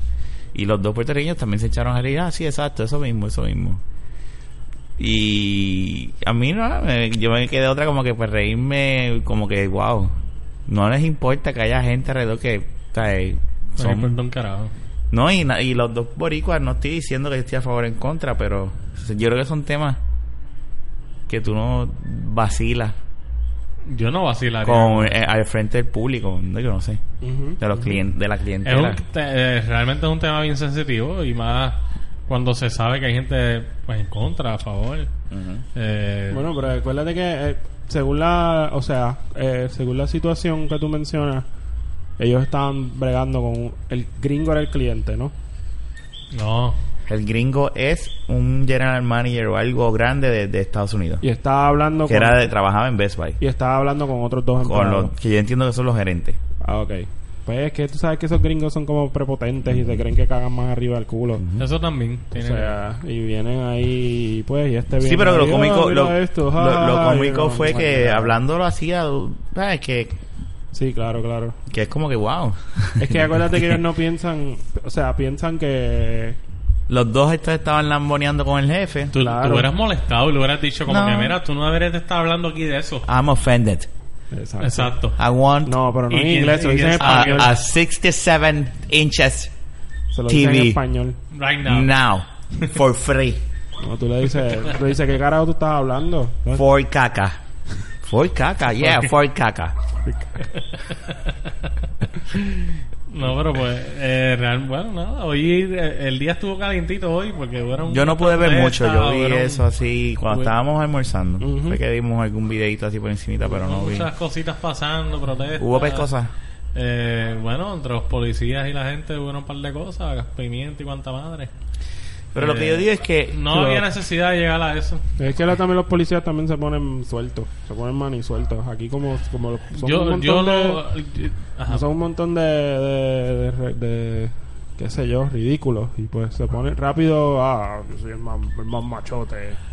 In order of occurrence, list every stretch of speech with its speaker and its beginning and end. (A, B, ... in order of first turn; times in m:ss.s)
0:00.5-0:03.8 A
0:05.0-0:10.2 A
0:10.7-0:14.1 A
0:13.8-0:14.7 B
0:15.1-0:20.0 A
0:21.3-0:23.0 A
0:23.9-0:25.2 B
0:24.6-0:27.0 A
0:27.2-0:28.0 C
0:27.6-0:29.0 A
0:28.6-0:35.1 B
0:35.3-0:35.6 A
0:35.7-0:36.4 B
0:36.3-0:41.4 C
0:42.2-0:45.3 C
0:46.3-0:46.8 B
0:47.1-0:51.2 A
0:51.2-0:52.5 C
0:52.1-0:53.4 A
0:53.4-0:55.1 C
0:54.6-0:56.4 A
0:56.6-1:01.4 C
0:59.7-1:00.0 A
1:01.4-1:01.6 A
1:01.6-1:02.7 B
1:02.3-1:08.4 C
1:05.0-1:10.2 A
1:10.7-1:11.6 C
1:11.7-1:13.8 A
1:13.0-1:16.4 C
1:16.9-1:19.1 A
1:19.1-1:23.1 B
1:19.1-1:19.7 C
1:20.9-1:21.4 A
1:23.0-1:23.9 A
1:24.3-1:24.9 C
1:24.6-1:25.2 B
1:25.2-1:25.8 A
1:25.6-1:27.5 C
1:26.1-1:27.5 B
1:27.0-1:29.5 A
1:30.1-1:31.2 C
1:30.3-1:30.8 A
1:31.3-1:31.9 B
1:31.6-1:33.4 A
1:33.8-1:36.6 C
1:36.5-1:37.4 A
1:38.0-1:39.8 A
1:40.0-1:40.5 C
1:40.6-1:41.3 B
1:42.2-1:49.6 B
1:47.9-1:54.1 A
1:51.4-1:51.8 C
1:53.5-1:56.1 B
1:55.6-1:56.3 A
1:56.7-2:01.5 B
2:02.3-2:03.8 A
2:02.4-2:05.0 B
2:05.2-2:10.8 C
2:09.7-2:11.8 B
2:11.7-2:19.6 C